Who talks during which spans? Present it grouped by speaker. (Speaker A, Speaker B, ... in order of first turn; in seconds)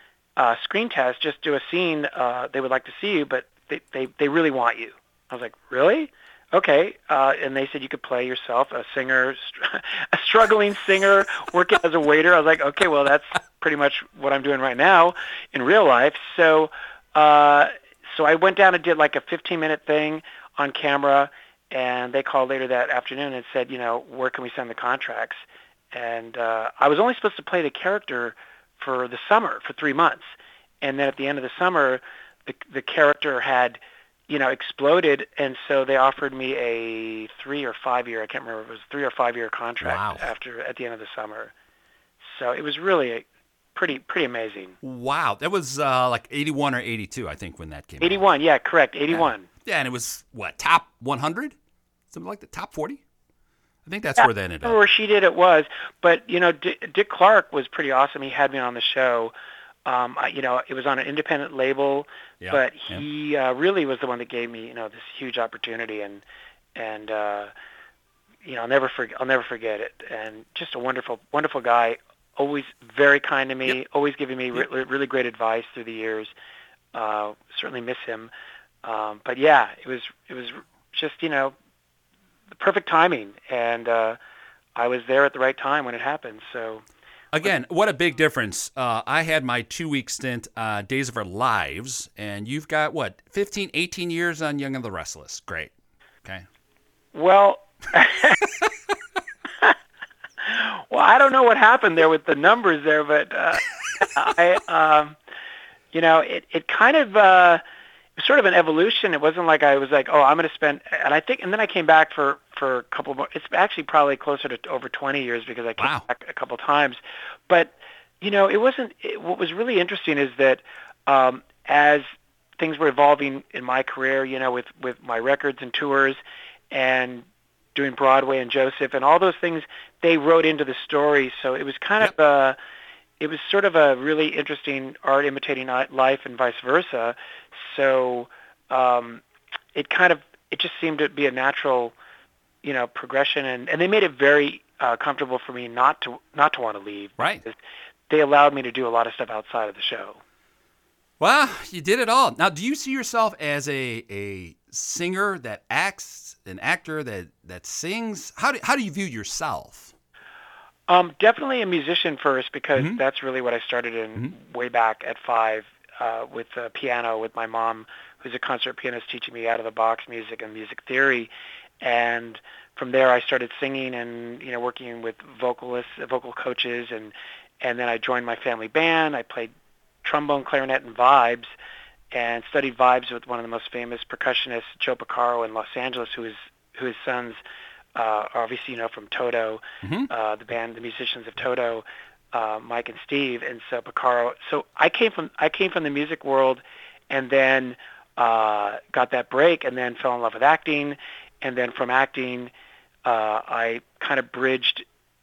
Speaker A: 0.4-25.4, 25.9-30.3, 30.8-41.5, 42.2-44.8, 48.0-49.5, 54.2-59.3, 59.8-66.2, 66.8-67.5, 68.4-76.3, 76.9-78.3, 78.8-81.5, 82.6-84.2, 84.8-86.8, 97.1-98.4, 100.4-105.2, 105.9-107.6, 108.2-122.0, 122.6-126.2, 126.7-132.6, 133.2-139.2, 139.7-141.9, 142.6-147.6, 148.1-150.2, 160.9-171.3, 171.8-179.5, 180.0-181.5, 182.1-187.4, 187.9-202.5, 203.0-204.8
Speaker B: 39.8-40.3, 44.8-48.2, 49.1-51.5, 52.1-53.0, 53.9-54.8, 62.4-63.0, 87.3-95.7, 115.8-116.0, 147.2-147.4, 151.2-159.9, 189.8-190.1